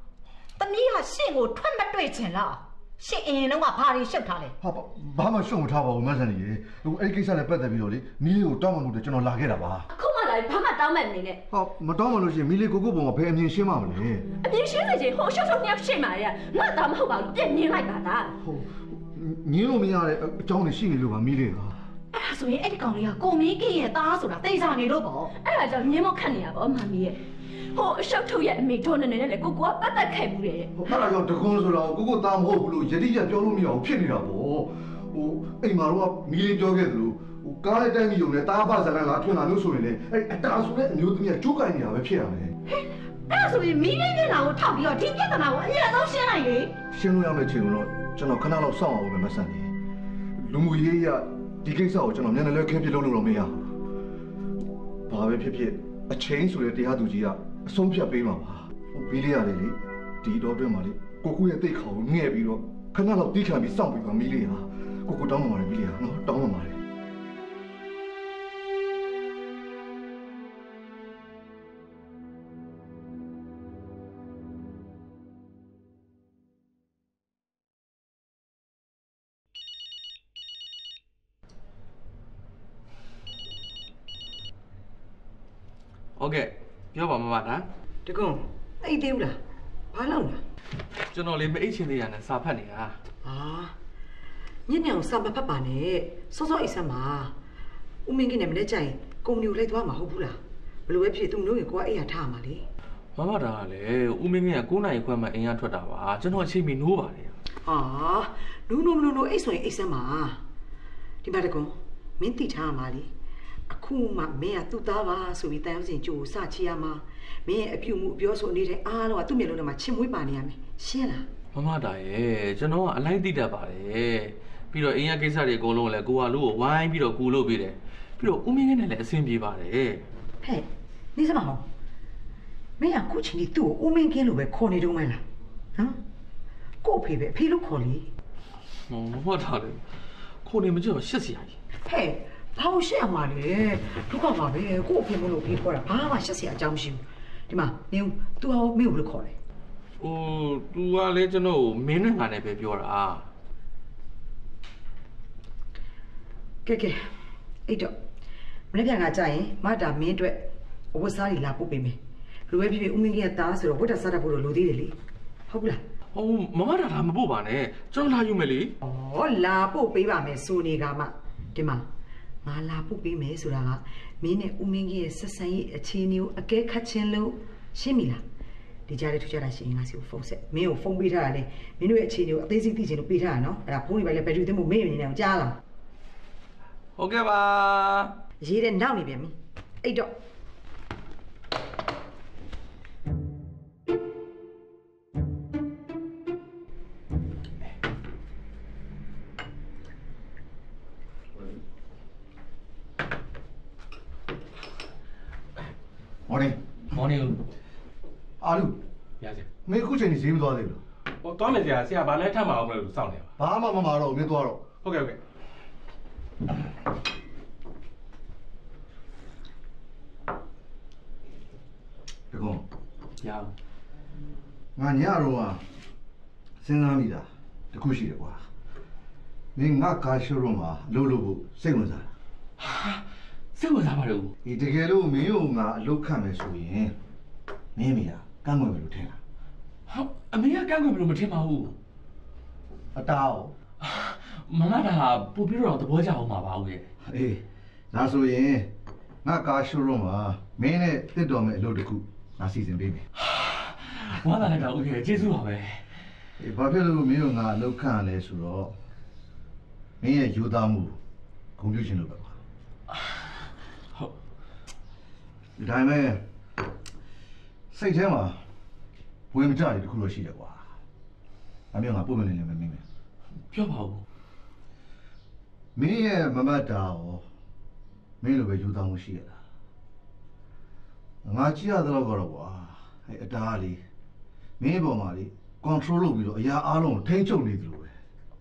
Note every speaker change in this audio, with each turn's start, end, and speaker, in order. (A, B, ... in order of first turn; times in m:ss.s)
0:00.6-0:04.5 A
0:04.6-0:09.8 B
0:09.9-0:11.4 C
0:11.5-0:14.2 B
0:14.4-0:18.4 C
0:18.4-0:21.7 B
0:22.1-0:25.3 A
0:25.4-0:30.8 C
0:30.8-0:42.5 B
0:42.7-0:46.7 A
0:46.9-0:49.7 B
0:50.4-0:53.7 B
0:55.1-1:06.8 B
1:26.2-1:27.6 D
1:28.0-1:29.4 E
1:29.9-1:30.4 E
1:31.1-1:32.9 D
1:33.2-1:33.7 E
1:34.7-1:37.3 E
1:38.0-1:42.6 E
1:43.2-1:47.3 D
1:47.6-1:50.4 E
1:51.2-1:53.1 E
1:53.7-2:01.3 E
2:01.5-2:10.0 D
2:10.4-2:11.6 E
2:12.8-2:15.2 E
2:16.8-2:18.1 E
2:18.9-2:19.8 D
2:20.4-2:21.6 D
2:21.8-2:29.4 E
2:30.0-2:33.2 D
2:36.6-2:37.0 E
2:37.7-2:37.9 E
2:38.7-2:42.0 E
2:42.5-2:45.0 E
2:45.5-2:45.8 E
2:46.1-2:48.7 D
2:48.8-2:51.8 E
2:52.4-2:58.2 E
2:58.9-3:05.6 E
3:07.0-3:08.1 D
3:08.4-3:10.1 E
3:26.3-3:26.6 B
3:27.0-3:27.3 D
3:28.4-3:28.8 B
3:29.2-3:29.5 F
3:29.6-3:30.8 B
3:31.2-3:33.3 F
3:33.4-3:34.6 B
3:34.8-3:35.2 F
3:42.3-3:42.6 B
3:43.2-3:43.5 D
3:44.8-3:45.6 B
3:46.6-3:48.4 B
3:49.5-3:52.1 B
3:52.6-3:53.0 D
3:53.5-3:54.3 D
3:54.4-3:57.0 B
3:57.8-3:59.2 B
3:59.9-4:01.7 D
4:02.9-4:03.5 B
4:03.8-4:06.9 D
4:07.0-4:08.7 B
4:09.2-4:13.0 B
4:13.2-4:15.8 D
4:16.4-4:18.7 B
4:20.0-4:21.0 B
4:21.6-4:22.4 B
4:25.6-4:26.2 B
4:27.7-4:28.4 B
4:29.3-4:30.7 B
4:31.7-4:32.8 B
4:33.5-4:34.0 D
4:35.8-4:37.2 B
4:38.2-4:39.4 B
4:41.2-4:43.8 B
4:44.6-4:47.9 B